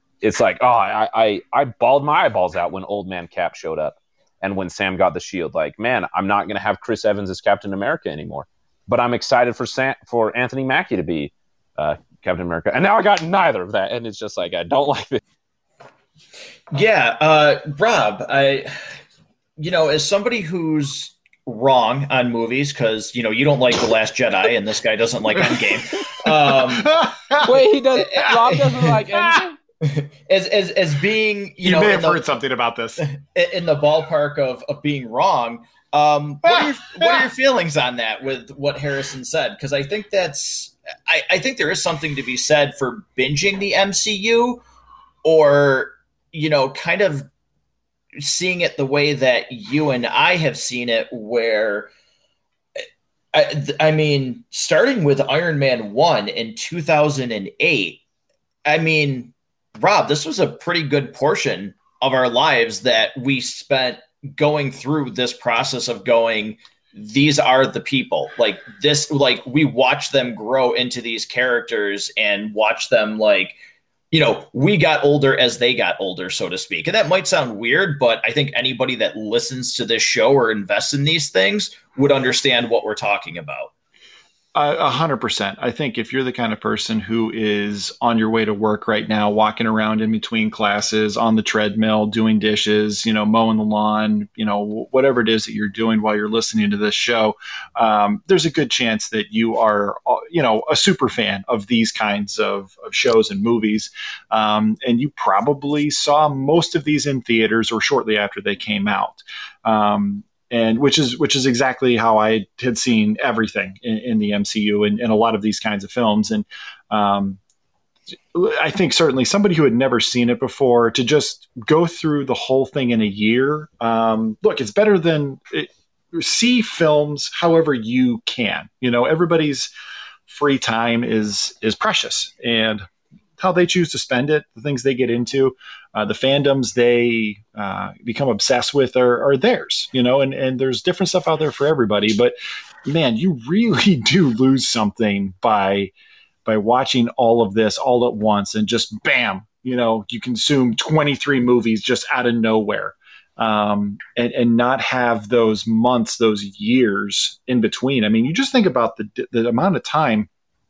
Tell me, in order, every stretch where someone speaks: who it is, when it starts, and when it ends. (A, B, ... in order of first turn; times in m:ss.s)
0:00.2-0:15.2 A
0:16.7-0:18.9 B
0:19.6-0:27.0 B
0:26.2-0:28.3 C
0:27.4-0:29.6 A
0:28.2-0:28.6 B
0:29.1-0:29.4 C
0:29.8-0:32.2 B
0:31.6-0:33.0 C
0:33.0-0:44.6 B
0:36.5-0:37.2 C
0:45.2-0:47.3 B
0:48.2-0:51.9 B
0:53.3-0:58.0 B
0:58.6-1:13.6 B
1:14.1-1:23.7 B
1:24.5-1:57.4 C
1:58.3-2:09.7 C
2:10.3-2:12.8 C
2:13.4-2:25.9 C
2:26.4-2:40.3 C